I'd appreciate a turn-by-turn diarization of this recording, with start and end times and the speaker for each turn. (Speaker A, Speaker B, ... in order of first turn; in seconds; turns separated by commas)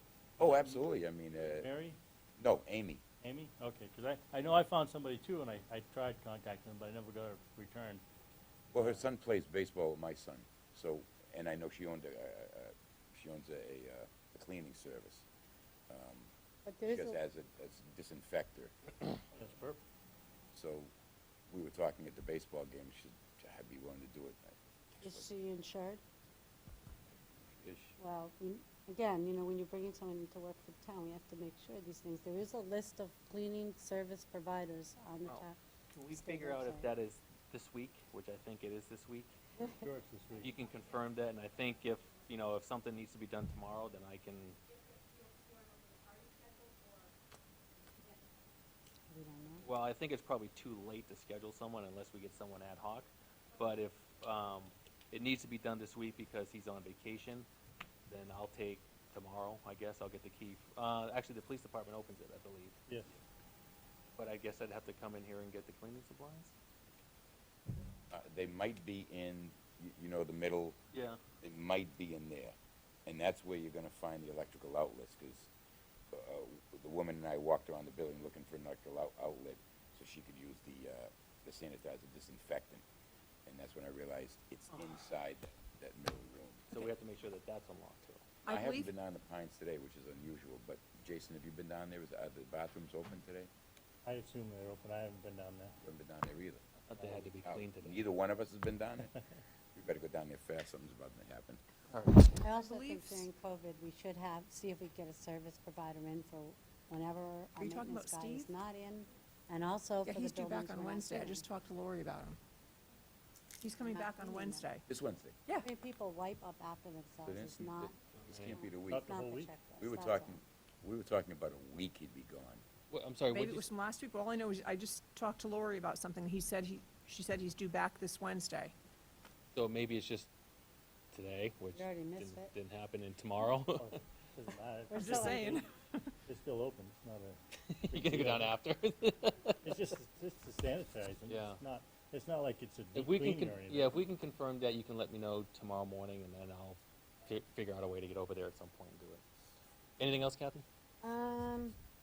Speaker A: 0.4-1.7, Speaker B: 0.4-2.0, Speaker A: 2.4-3.0, Speaker B: 3.2-8.0, Speaker A: 8.7-15.2, Speaker A: 15.9-16.3, Speaker C: 16.6-17.2, Speaker A: 16.9-18.7, Speaker B: 19.3-19.8, Speaker A: 20.5-20.9, Speaker A: 21.5-25.3, Speaker C: 25.0-26.0, Speaker A: 27.6-27.9, Speaker C: 28.0-35.6, Speaker D: 35.9-39.3, Speaker C: 36.1-36.8, Speaker C: 39.6-39.8, Speaker B: 39.7-40.6, Speaker D: 40.4-44.6, Speaker C: 49.1-49.6, Speaker D: 49.6-57.5, Speaker D: 58.1-62.8, Speaker D: 64.2-66.5, Speaker A: 68.1-70.8, Speaker D: 70.9-71.2, Speaker A: 71.4-72.5, Speaker A: 73.0-75.5, Speaker A: 76.1-82.8, Speaker A: 83.5-86.9, Speaker D: 86.7-88.3, Speaker E: 88.5-88.9, Speaker A: 88.5-93.5, Speaker B: 94.0-95.8, Speaker A: 95.8-96.6, Speaker D: 96.9-98.0, Speaker A: 97.3-99.1, Speaker A: 99.7-101.6, Speaker D: 101.9-102.4, Speaker C: 102.4-111.4, Speaker E: 102.6-103.2, Speaker E: 107.6-108.4, Speaker E: 110.0-112.4, Speaker E: 113.6-114.8, Speaker C: 113.8-114.7, Speaker A: 114.9-115.4, Speaker C: 115.6-118.0, Speaker A: 117.2-119.1, Speaker D: 118.2-118.5, Speaker C: 118.5-120.4, Speaker B: 118.9-119.5, Speaker A: 119.8-122.6, Speaker D: 122.9-123.7, Speaker E: 123.3-128.7, Speaker D: 129.5-130.3, Speaker D: 131.1-134.0, Speaker C: 131.7-132.5, Speaker B: 133.7-135.6, Speaker C: 134.9-135.6, Speaker E: 134.9-136.0, Speaker B: 136.2-137.4, Speaker D: 137.7-139.6, Speaker B: 137.9-138.5, Speaker B: 139.6-144.0, Speaker D: 141.3-141.6, Speaker D: 142.9-149.2, Speaker D: 150.0-150.6, Speaker C: 151.0-151.8